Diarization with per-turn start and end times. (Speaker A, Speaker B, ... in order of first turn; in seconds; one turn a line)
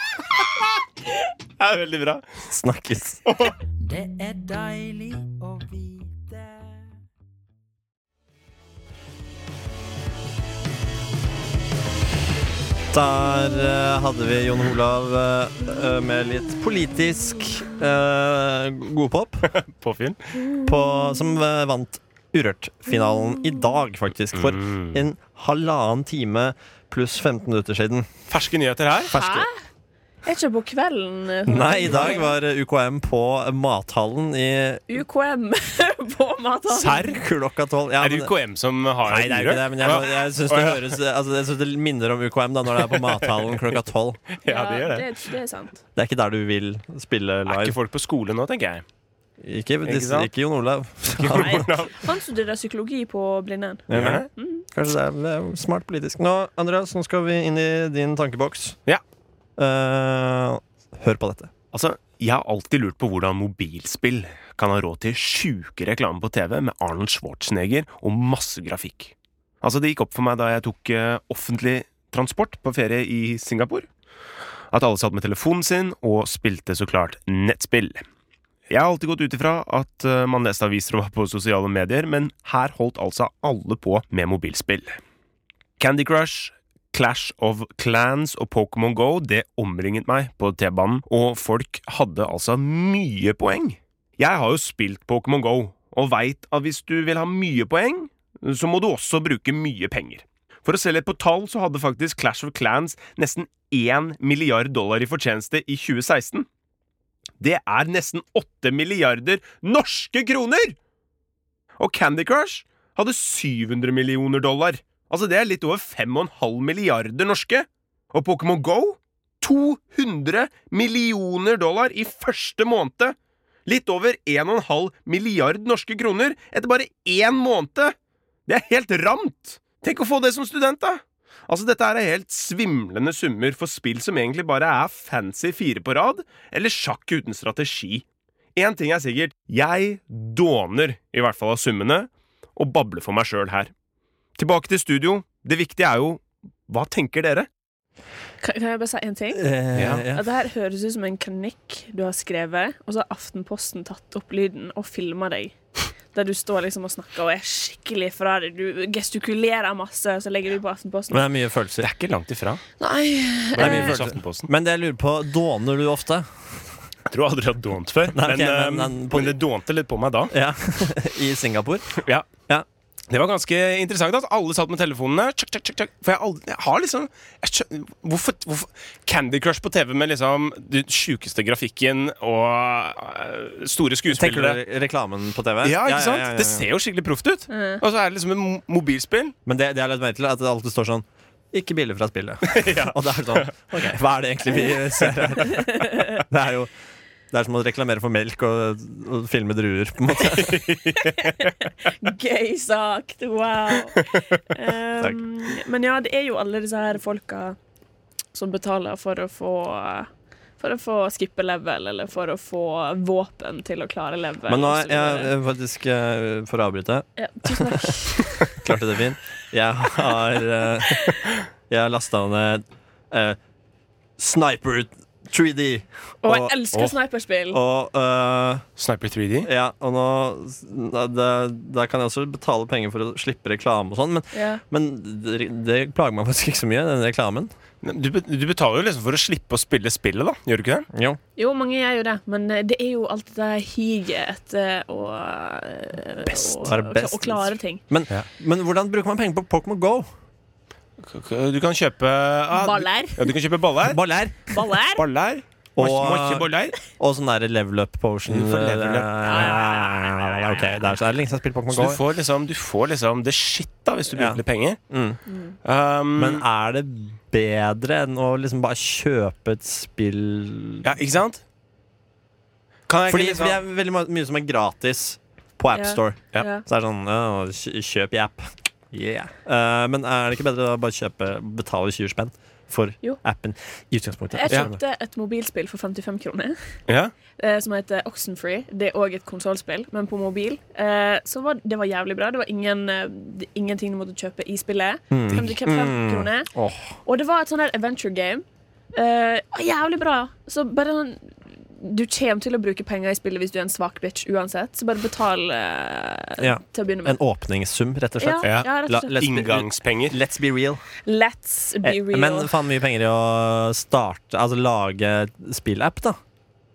Speaker A: 1.6-2.2
Speaker B: 2.5-3.2
Speaker A: 3.3-3.5
Speaker C: 3.8-6.9
Speaker B: 12.9-19.5
Speaker A: 19.5-20.3
Speaker B: 20.6-28.1
Speaker A: 24.3-25.0
Speaker A: 28.3-29.1
Speaker B: 29.1-29.5
Speaker D: 29.1-29.6
Speaker D: 30.2-32.3
Speaker B: 31.5-35.0
Speaker A: 31.9-32.2
Speaker D: 34.9-37.1
Speaker A: 36.7-37.2
Speaker B: 36.9-38.3
Speaker A: 38.0-41.0
Speaker B: 39.1-44.2
Speaker A: 42.8-43.6
Speaker A: 44.3-45.1
Speaker D: 44.5-45.8
Speaker B: 46.0-47.8
Speaker A: 47.5-48.8
Speaker B: 49.4-51.7
Speaker A: 49.8-50.3
Speaker A: 51.1-52.0
Speaker D: 51.4-54.6
Speaker B: 53.9-58.8
Speaker A: 53.9-54.3
Speaker B: 59.6-61.5
Speaker A: 61.7-73.9
Speaker A: 74.7-78.0
Speaker A: 78.7-85.0
Speaker A: 85.8-106.5
Speaker A: 107.4-110.8
Speaker A: 111.8-123.2
Speaker A: 123.7-128.0
Speaker A: 128.5-143.7
Speaker A: 144.4-147.5
Speaker D: 148.4-155.6
Speaker B: 149.3-150.2
Speaker A: 149.8-150.0
Speaker D: 156.1-161.3
Speaker B: 161.1-161.9
Speaker A: 161.8-162.6
Speaker D: 162.8-163.9
Speaker A: 163.5-164.5
Speaker B: 163.6-166.7
Speaker A: 167.1-170.3
Speaker B: 168.1-169.4
Speaker B: 170.3-172.7
Speaker A: 172.0-172.3
Speaker A: 173.1-184.6
Speaker B: 184.1-186.7
Speaker A: 185.6-189.3
Speaker D: 187.5-187.8
Speaker B: 189.5-196.7
Speaker A: 192.5-193.7
Speaker D: 195.5-196.1
Speaker B: 197.3-200.7
Speaker A: 200.3-201.5
Speaker D: 201.0-201.3
Speaker D: 202.0-207.6
Speaker D: 208.3-215.3
Speaker B: 214.5-223.4
Speaker D: 217.2-218.5
Speaker D: 220.8-221.3
Speaker B: 224.2-226.6
Speaker D: 226.2-227.6
Speaker B: 227.5-228.6
Speaker A: 228.8-229.5
Speaker B: 229.4-237.5
Speaker D: 234.3-234.6
Speaker A: 237.8-240.9
Speaker B: 240.9-241.2
Speaker D: 241.4-247.8
Speaker B: 246.3-250.1
Speaker A: 251.0-254.0
Speaker D: 252.6-253.3
Speaker B: 253.8-254.6
Speaker D: 254.5-255.0
Speaker A: 254.9-256.8
Speaker B: 255.8-262.0
Speaker A: 258.3-259.6
Speaker D: 259.2-260.8
Speaker A: 261.7-264.8
Speaker B: 264.1-265.2
Speaker D: 265.3-265.6
Speaker A: 265.6-266.4
Speaker B: 266.2-270.9
Speaker A: 270.8-271.4
Speaker A: 272.9-273.6
Speaker B: 273.1-284.8
Speaker D: 275.7-276.6
Speaker D: 284.4-286.6
Speaker A: 286.9-287.1
Speaker D: 287.4-296.5
Speaker B: 295.1-297.0
Speaker D: 297.1-307.2
Speaker B: 306.4-310.8
Speaker D: 308.2-309.2
Speaker A: 308.4-310.2
Speaker D: 311.1-312.5
Speaker B: 311.8-316.2